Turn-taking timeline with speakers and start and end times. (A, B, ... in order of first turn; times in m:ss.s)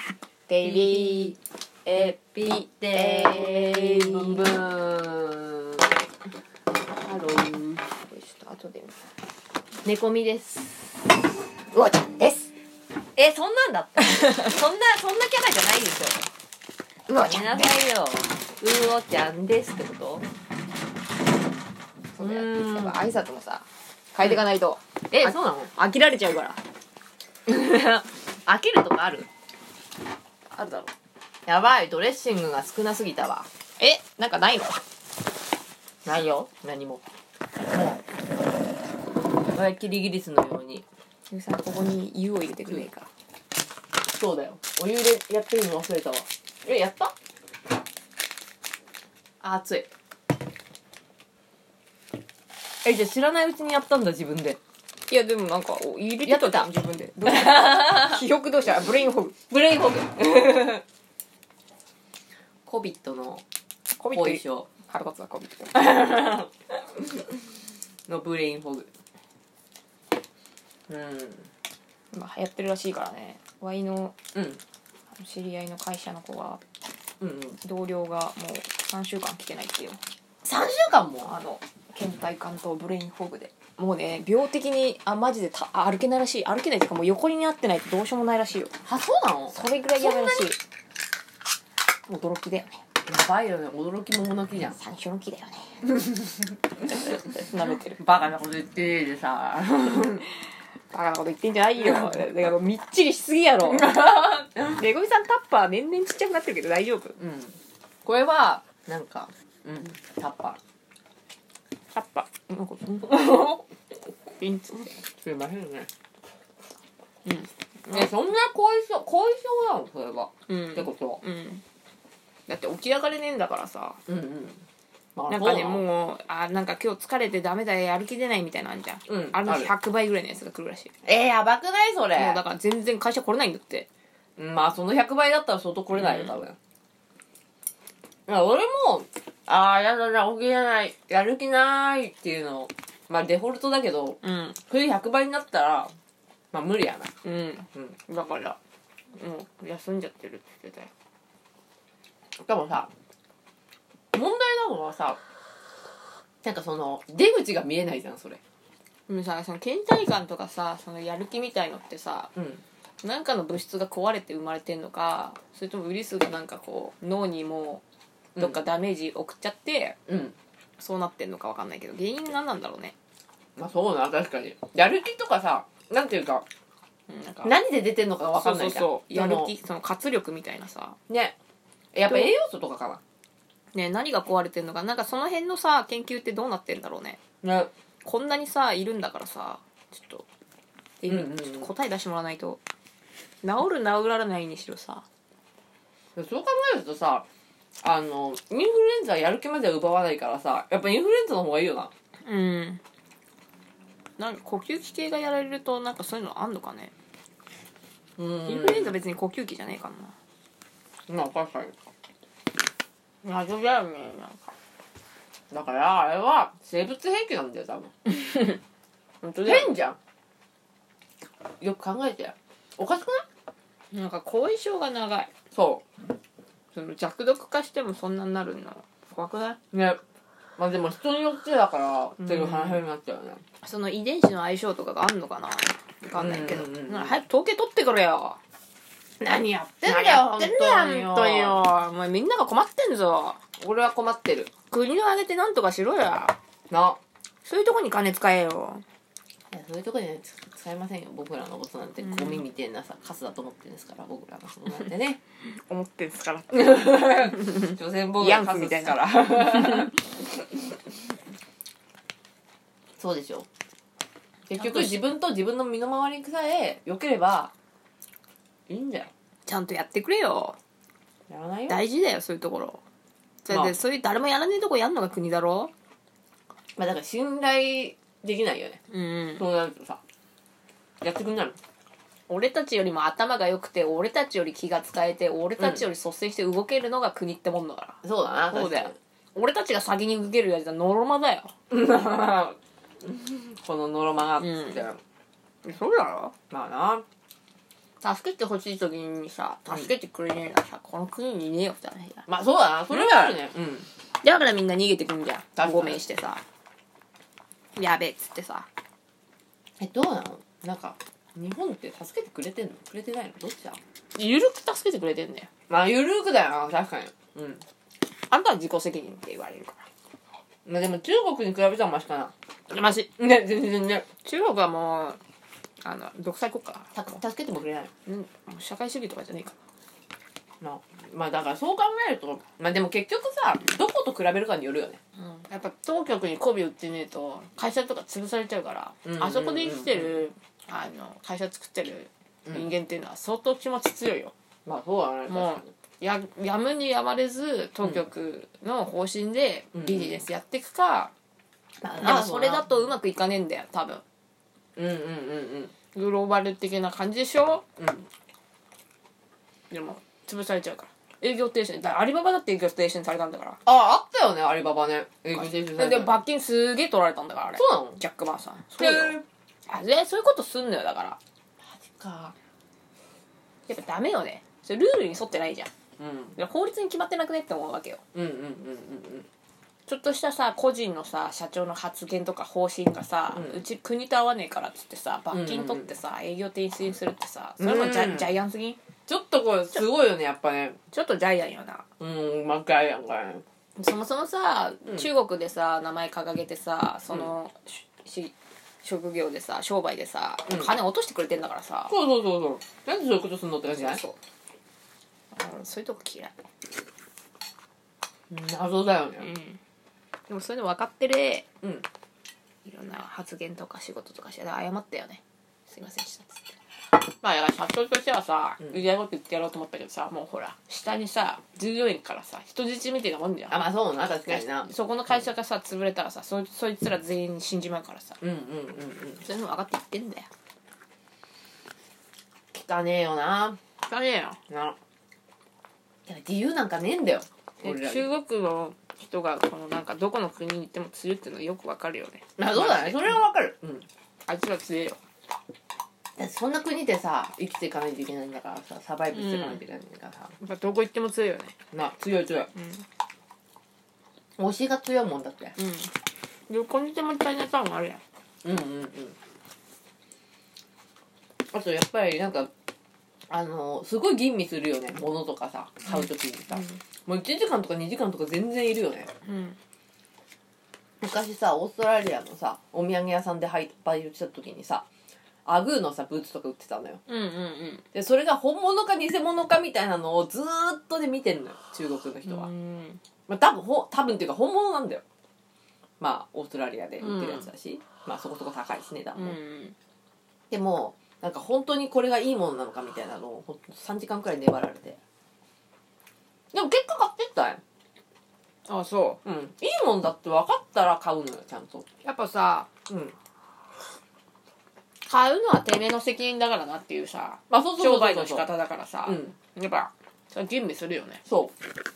0:00.5-0:04.6 A
0:00.6-0:01.4 B
0:01.9-0:05.9 B
0:07.0-0:07.8 B
0:07.9-0:09.0 A
0:09.8-0:11.0 B
0:11.7-0:12.5 A
0:13.2-0:16.3 B
0:17.1-0:17.7 A
0:17.1-0:20.3 B
0:22.2-0:26.6 A
0:22.2-0:23.0 B
0:25.1-0:25.7 B
0:27.4-0:29.3 B
0:30.5-0:30.9 A
0:31.4-0:33.5 B
0:33.8-0:34.8 A
0:36.0-0:37.0 B
0:37.7-0:38.0 B
0:39.5-0:40.8 B
0:41.3-0:43.1 A
0:44.1-0:47.1 B
0:49.4-0:49.9 B
0:52.8-0:54.6 B
0:55.1-0:59.4 A
0:56.2-0:56.7 B
0:57.2-0:58.2 B
0:59.5-1:00.8 B
1:02.6-1:03.4 B
1:04.0-1:05.8 A
1:04.1-1:04.7 B
1:05.7-1:07.3 B
1:08.1-1:08.9 B
1:10.9-1:11.5 B
1:12.1-1:14.1 A
1:14.3-1:14.6 B
1:15.1-1:16.6 A
1:17.2-1:17.6 B
1:17.6-1:20.0 A
1:20.4-1:21.3 B
1:21.2-1:28.7 A
1:28.8-1:30.5 B
1:29.5-1:30.6 A
1:32.1-1:32.8 A
1:33.1-1:34.8 B
1:34.8-1:35.8 A
1:36.0-1:36.5 B
1:36.9-1:38.0 A
1:38.0-1:40.2 B
1:40.9-1:44.2 A
1:41.8-1:42.2 B
1:43.6-1:44.8 B
1:44.7-1:47.2 A
1:47.2-1:50.6 B
1:51.9-1:53.6 A
1:54.4-1:55.0 A
1:55.1-1:55.9 B
1:57.2-1:58.1 A
1:57.9-2:01.2 B
2:00.5-2:01.6 A
2:02.5-2:04.0 A
2:04.0-2:04.6 B
2:05.2-2:05.8 B
2:05.3-2:10.9 A
2:09.1-2:09.7 B
2:11.0-2:12.4 B
2:12.1-2:13.9 A
2:14.4-2:16.6 B
2:15.9-2:16.4 A
2:18.3-2:25.9 B
2:24.2-2:24.6 A
2:26.5-2:27.1 B
2:27.2-2:28.6 A
2:29.1-2:30.9 A
2:32.4-2:32.9 B
2:34.1-2:35.2 B
2:36.4-2:38.4 B
2:39.1-2:42.3 A
2:42.4-2:42.6 B
2:43.0-2:47.8 A
2:48.4-2:50.0 A
2:50.1-2:50.3 B
2:50.8-2:52.9 A
2:53.6-2:56.4 B
2:57.1-2:57.5 A
2:57.4-2:59.5 B
2:58.4-3:01.0 A
3:01.1-3:01.4 B
3:01.9-3:03.0 B
3:02.0-3:02.3 A
3:03.7-3:07.2 A
3:07.4-3:07.7 B
3:08.0-3:10.2 A
3:11.0-3:12.6 A
3:11.1-3:11.7 B
3:13.4-3:15.0 A
3:16.2-3:17.2 B
3:17.8-3:21.9 B
3:22.2-3:22.8 A
3:24.2-3:26.9 A
3:28.2-3:29.0 B
3:28.4-3:30.1 A
3:31.1-3:31.8 B
3:33.2-3:34.5 A
3:35.5-3:37.9 B
3:38.1-3:38.6 A
3:39.2-3:39.7 A
3:39.4-3:40.0 B
3:41.6-3:43.2 B
3:43.9-3:45.3 A
3:45.5-3:45.8 B
3:46.7-3:49.6 A
3:49.7-3:50.0 B
3:50.6-3:53.4 B
3:52.2-3:52.8 A
3:53.6-3:58.4 A
3:56.1-3:57.2 B
3:59.2-4:01.6 B
3:59.8-4:03.4 A
4:03.6-4:04.5 B
4:04.7-4:06.4 A
4:06.7-4:07.0 B
4:07.4-4:08.8 A
4:09.5-4:15.2 B
4:12.0-4:12.4 A
4:15.5-4:20.0 A
4:16.5-4:20.1 B
4:23.0-4:23.5 B
4:24.5-4:27.5 B
4:24.5-4:25.0 A
4:28.7-4:29.1 B
4:29.4-4:30.6 A
4:31.3-4:31.8 B
4:31.7-4:32.8 A
4:33.4-4:35.7 A
4:33.5-4:33.8 B
4:36.8-4:38.8 B
4:38.9-4:39.4 A
4:39.4-4:40.0 B
4:41.0-4:41.6 B
4:42.3-4:48.0 A
4:45.6-4:45.8 B
4:48.0-4:48.9 B
4:48.5-4:51.5 A
4:51.7-4:55.0 B
4:54.4-4:54.8 A
4:55.6-4:56.3 A
4:56.5-4:57.0 B
4:58.0-5:02.3 A
5:02.3-5:03.9 B
5:02.9-5:03.4 A
5:04.2-5:06.4 A
5:05.6-5:06.0 B
5:07.8-5:08.7 A
5:09.8-5:13.8 B
5:14.1-5:15.5 A
5:15.7-5:17.6 B
5:18.3-5:19.8 A
5:20.6-5:22.3 B
5:22.7-5:23.1 A
5:23.2-5:24.1 B
5:24.2-5:25.2 A
5:25.8-5:27.0 A
5:26.9-5:27.9 B
5:28.0-5:29.5 A
5:30.6-5:35.0 B
5:35.2-5:44.3 A
5:39.0-5:40.2 B
5:44.6-5:45.7 B
5:45.3-5:51.1 A
5:49.7-5:50.2 B
5:51.8-5:52.8 B
5:52.0-5:54.0 A
5:54.8-5:55.7 B
5:55.9-5:57.6 A
5:57.8-5:58.1 B
5:59.7-6:03.6 A
6:03.6-6:06.2 B
6:05.4-6:09.2 A
6:07.5-6:08.0 B
6:08.8-6:09.2 B
6:09.7-6:11.2 A
6:11.6-6:12.3 B
6:13.7-6:15.7 A
6:16.0-6:16.4 B
6:16.4-6:18.0 A
6:18.1-6:19.3 B
6:19.9-6:28.8 A
6:23.3-6:23.6 B
6:25.3-6:25.9 B
6:27.6-6:28.3 B
6:29.1-6:30.8 B
6:30.9-6:31.8 A
6:32.0-6:33.4 B
6:33.8-6:41.9 A
6:40.5-6:40.7 B
6:41.9-6:44.0 B
6:43.7-6:44.2 A
6:45.3-6:46.3 A
6:48.3-6:49.3 B
6:49.2-6:49.6 A
6:50.3-6:51.5 A
6:52.6-6:56.4 A
6:57.1-7:03.6 A
7:03.5-7:04.7 B
7:04.2-7:08.2 A
7:08.2-7:09.2 B
7:09.2-7:10.3 A
7:12.5-7:13.6 B
7:13.9-7:14.4 A
7:14.5-7:14.8 B
7:16.1-7:18.1 B
7:17.6-7:23.2 A
7:22.4-7:23.9 B
7:24.3-7:25.0 A
7:26.2-7:30.3 B
7:29.1-7:29.6 A
7:30.4-7:31.6 A
7:31.7-7:32.5 B
7:32.5-7:32.8 A
7:34.4-7:35.5 B
7:35.6-7:35.9 A
7:36.5-7:38.0 A
7:38.4-7:39.2 B
7:41.5-7:42.5 B
7:43.3-7:49.1 B
7:45.9-7:46.8 A
7:49.2-7:49.6 A
7:51.0-7:54.8 B
7:55.4-7:57.0 B
7:57.1-7:57.8 A
7:57.9-8:02.5 B
8:02.2-8:03.0 A
8:03.3-8:05.0 B
8:06.0-8:09.4 B
8:07.0-8:07.5 A
8:09.2-8:09.7 A
8:10.5-8:15.0 B
8:16.5-8:17.6 B
8:18.7-8:19.2 A
8:19.2-8:21.8 B
8:22.0-8:22.7 A
8:22.9-8:23.1 B
8:25.0-8:31.2 A
8:27.5-8:28.5 B
8:29.0-8:29.3 B
8:31.2-8:31.5 B